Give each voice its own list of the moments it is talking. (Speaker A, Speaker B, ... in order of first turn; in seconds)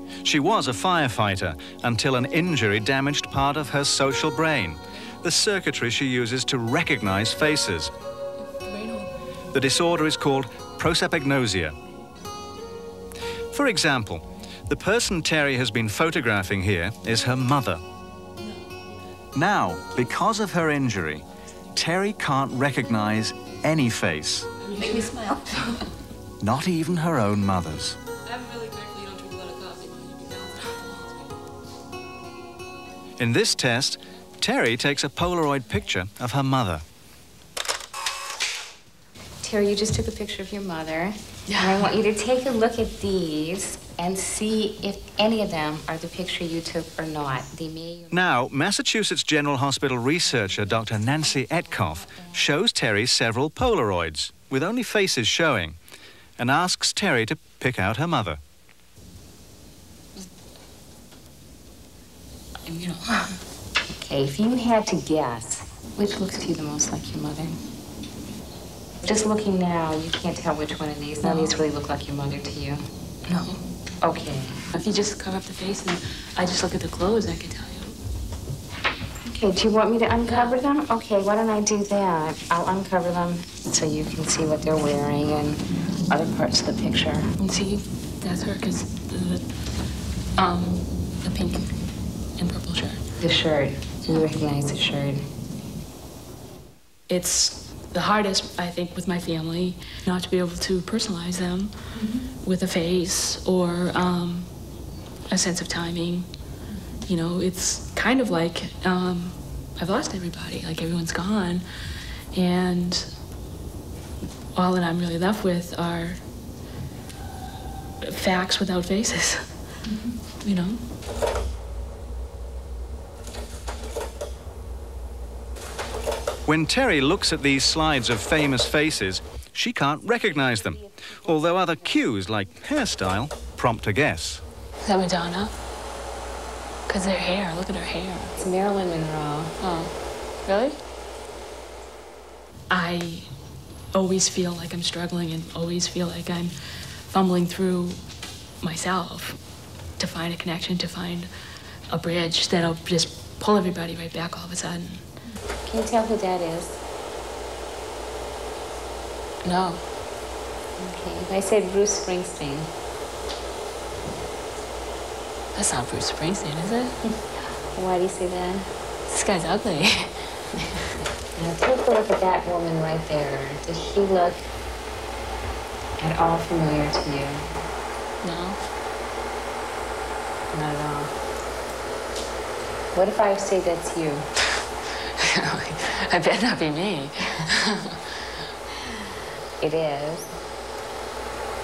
Speaker A: 0.2-7.9, 9.5-11.7, 13.5-17.8, 19.3-24.5, 26.4-28.0, 33.2-36.8, 48.1-55.8, 56.4-58.4, 126.5-134.4
Speaker B: 8.5-9.2, 24.6-25.9, 28.2-31.3, 41.5-41.8, 62.6-63.4, 71.2-71.6, 73.3-73.6, 74.7-78.0, 80.2-80.6, 87.4-89.5, 90.4-91.7, 92.4-93.0, 97.1-101.7, 102.4-104.5, 105.3-106.3, 107.0-111.6, 112.3-113.1, 114.5-116.2, 118.0-119.5, 120.4-120.8, 134.8-135.5, 136.9-138.4, 139.6-139.9, 140.4-140.8, 142.7-143.3, 143.9-146.5, 147.1-148.0, 148.6-149.4, 150.0-151.3, 151.9-155.1, 159.4-159.8, 165.5-166.9, 169.1-170.3, 178.2-178.6, 185.0-188.0
Speaker C: 39.4-48.4, 50.4-52.5, 63.9-67.5, 69.0-72.8, 74.0-74.5, 79.3-87.3, 93.2-95.2, 130.0-132.5, 138.4-139.5, 155.6-156.8, 160.8-162.7, 167.7-168.7, 171.3-174.4, 176.0-177.4, 180.5-181.1, 182.9-184.2, 189.6-190.3